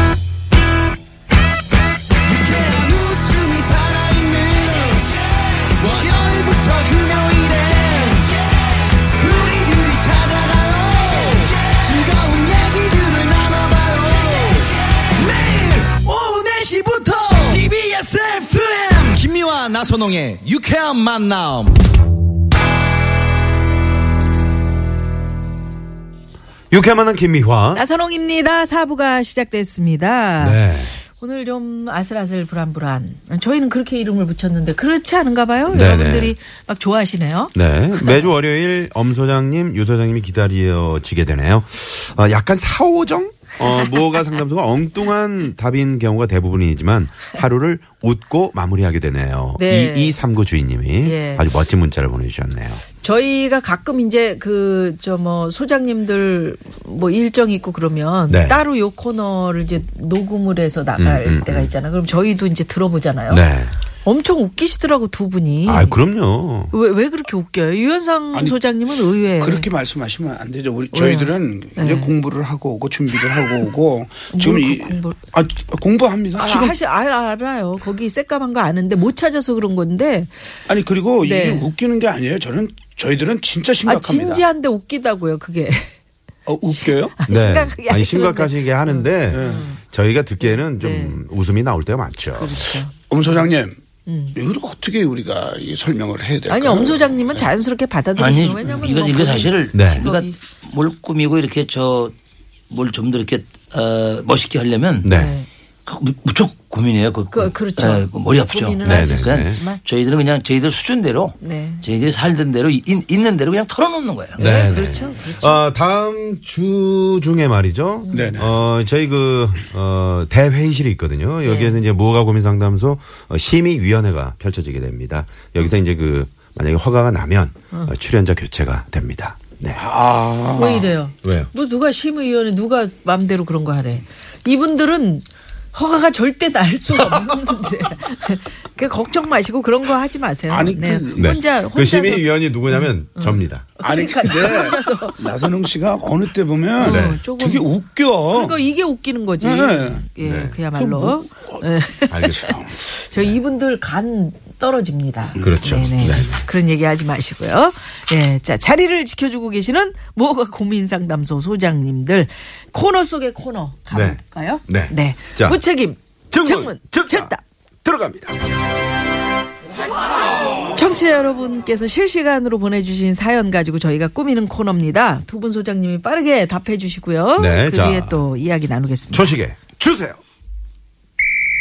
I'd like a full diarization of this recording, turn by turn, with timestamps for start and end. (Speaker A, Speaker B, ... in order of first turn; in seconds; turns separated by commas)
Speaker A: 2.3-8.3, Speaker A: 9.2-21.8, Speaker B: 26.7-27.8, Speaker C: 27.7-38.2, Speaker B: 30.4-31.0, Speaker B: 35.7-36.4, Speaker B: 37.5-52.8, Speaker C: 49.6-50.2, Speaker C: 51.0-51.5, Speaker C: 53.0-63.5, Speaker B: 58.3-58.6, Speaker B: 61.0-61.7, Speaker B: 63.3-63.8, Speaker C: 64.0-66.0, Speaker B: 65.7-66.7, Speaker C: 66.7-69.7, Speaker D: 68.3-68.6, Speaker D: 69.4-76.8, Speaker C: 70.9-72.1, Speaker C: 74.3-75.2, Speaker C: 76.3-80.3, Speaker D: 80.7-84.4, Speaker C: 81.2-81.7, Speaker C: 83.8-85.9, Speaker D: 86.5-87.2, Speaker C: 86.7-89.8, Speaker B: 87.3-92.7, Speaker D: 89.3-89.7, Speaker C: 90.4-91.2, Speaker C: 92.3-93.4, Speaker D: 93.1-93.8, Speaker C: 94.1-94.4, Speaker D: 94.3-97.5, Speaker C: 96.5-100.4, Speaker E: 98.2-102.2, Speaker B: 99.7-100.1, Speaker E: 102.7-105.1, Speaker B: 105.0-105.4, Speaker C: 105.1-105.5, Speaker E: 105.9-114.5, Speaker C: 107.3-109.8, Speaker B: 108.8-109.6, Speaker C: 111.4-111.8, Speaker C: 114.4-115.6, Speaker B: 114.4-129.8, Speaker C: 118.0-118.4, Speaker D: 118.1-118.5, Speaker C: 121.4-121.8, Speaker D: 129.8-130.9, Speaker C: 130.6-145.4, Speaker B: 131.2-131.5, Speaker D: 140.5-141.3, Speaker B: 141.2-143.7, Speaker D: 143.8-148.6, Speaker C: 146.8-147.7, Speaker B: 146.8-147.2, Speaker C: 148.3-167.4, Speaker D: 149.4-150.1, Speaker B: 150.2-150.6, Speaker D: 150.7-151.6, Speaker B: 152.1-152.5, Speaker D: 152.3-152.7, Speaker B: 153.1-153.4, Speaker B: 155.4-156.4, Speaker B: 163.9-165.6, Speaker B: 166.3-167.3, Speaker B: 167.8-168.4, Speaker C: 170.7-179.4, Speaker B: 177.4-178.2, Speaker B: 179.1-180.2